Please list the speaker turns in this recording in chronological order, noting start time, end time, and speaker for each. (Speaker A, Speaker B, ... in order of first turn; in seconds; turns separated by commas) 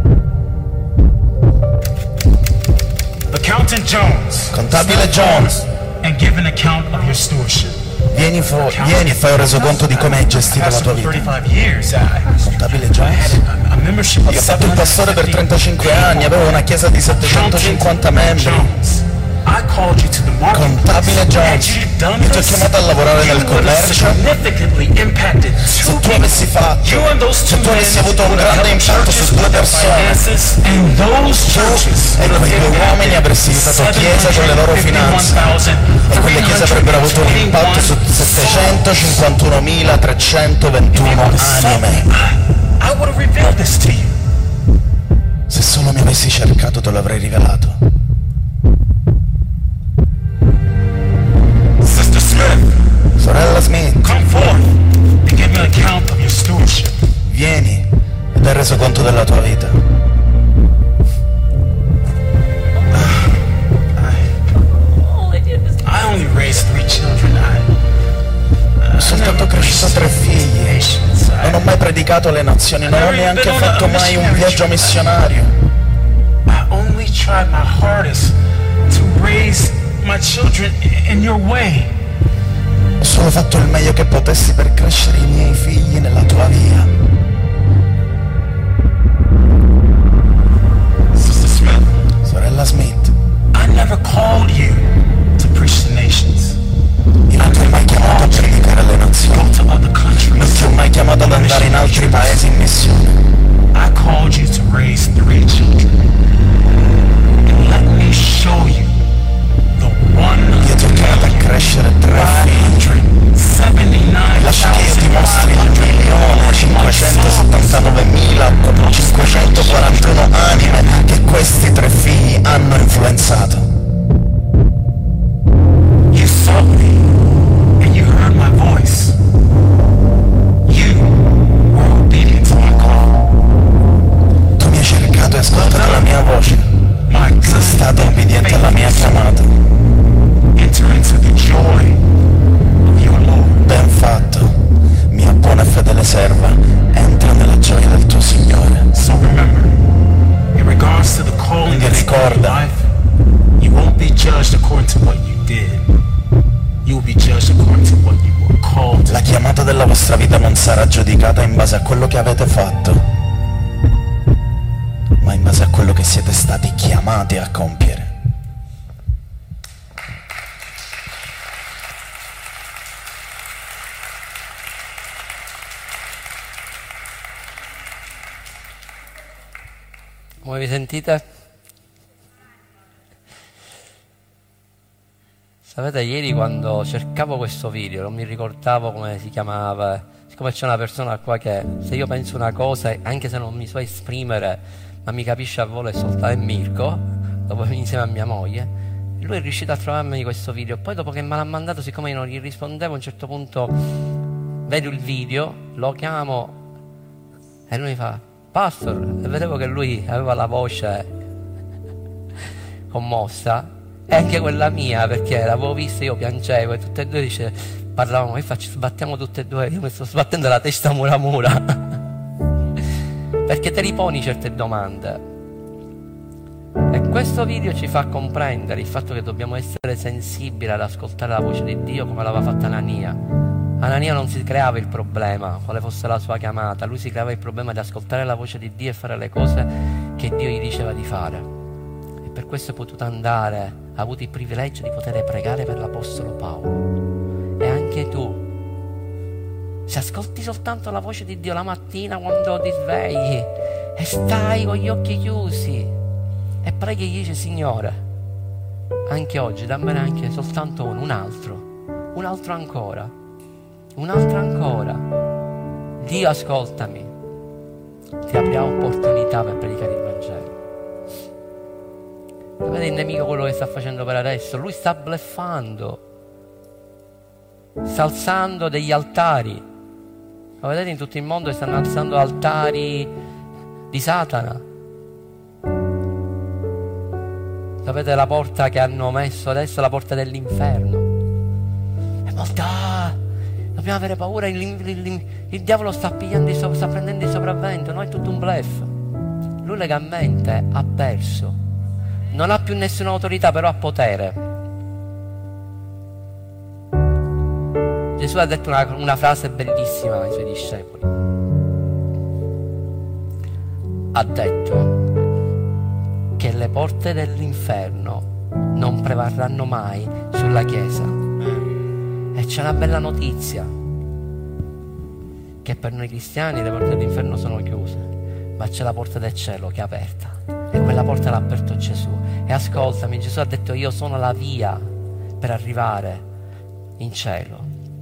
Speaker A: 3.3-7.8, Speaker B: 4.5-5.6, Speaker B: 8.1-11.3, Speaker A: 8.5-39.3, Speaker B: 12.4-13.4, Speaker B: 14.2-18.7, Speaker B: 20.5-24.2, Speaker B: 25.8-30.3, Speaker B: 31.4-35.5, Speaker B: 36.1-42.1, Speaker A: 40.9-44.1, Speaker B: 45.5-47.8, Speaker A: 51.8-52.8, Speaker B: 53.2-54.2, Speaker A: 54.0-56.9, Speaker B: 57.3-59.8, Speaker A: 62.9-63.4, Speaker A: 64.0-64.3, Speaker C: 65.3-65.6, Speaker A: 65.8-67.8, Speaker A: 68.8-71.7, Speaker B: 69.0-70.9, Speaker B: 71.4-75.5, Speaker A: 72.8-75.5, Speaker A: 76.5-78.4, Speaker A: 78.9-82.0, Speaker B: 83.0-86.9, Speaker A: 91.1-91.9, Speaker B: 92.2-93.1, Speaker A: 93.5-96.6, Speaker A: 97.3-98.7, Speaker B: 97.3-99.5, Speaker A: 99.2-102.4, Speaker B: 100.4-103.2, Speaker A: 103.7-105.9, Speaker A: 107.4-109.0, Speaker A: 109.8-117.9, Speaker B: 110.6-112.9, Speaker B: 114.4-123.7, Speaker A: 118.8-120.5, Speaker A: 126.1-127.0, Speaker A: 127.8-129.2, Speaker A: 130.7-133.2, Speaker B: 134.6-136.7, Speaker A: 135.5-136.2, Speaker A: 137.1-139.3, Speaker B: 137.4-139.5, Speaker A: 140.6-142.0, Speaker A: 142.9-143.7, Speaker B: 143.6-148.9, Speaker A: 148.9-149.7, Speaker A: 150.5-152.9, Speaker B: 151.7-152.6, Speaker A: 153.6-155.9, Speaker A: 156.8-159.3, Speaker B: 159.1-163.0, Speaker B: 165.2-168.1, Speaker C: 180.4-181.2, Speaker C: 185.7-203.9, Speaker C: 204.7-206.6, Speaker C: 207.7-211.1, Speaker C: 212.9-222.0, Speaker C: 223.5-225.2, Speaker C: 226.9-233.2, Speaker C: 233.8-241.5, Speaker C: 242.2-246.8, Speaker C: 247.6-248.5, Speaker C: 249.9-255.9, Speaker C: 256.6-258.0, Speaker C: 259.1-263.1, Speaker C: 264.0-265.0, Speaker C: 266.0-267.1, Speaker C: 268.2-270.5, Speaker C: 272.6-276.0, Speaker C: 277.8-279.6, Speaker C: 280.6-283.1, Speaker C: 283.9-284.6, Speaker C: 287.8-291.1, Speaker C: 292.3-293.2, Speaker C: 293.8-298.9, Speaker C: 299.6-301.6, Speaker C: 302.3-304.4, Speaker C: 308.2-311.1, Speaker C: 314.1-315.1, Speaker C: 316.4-321.2, Speaker C: 322.3-323.7, Speaker C: 325.6-334.9, Speaker C: 335.4-336.2, Speaker C: 337.0-337.7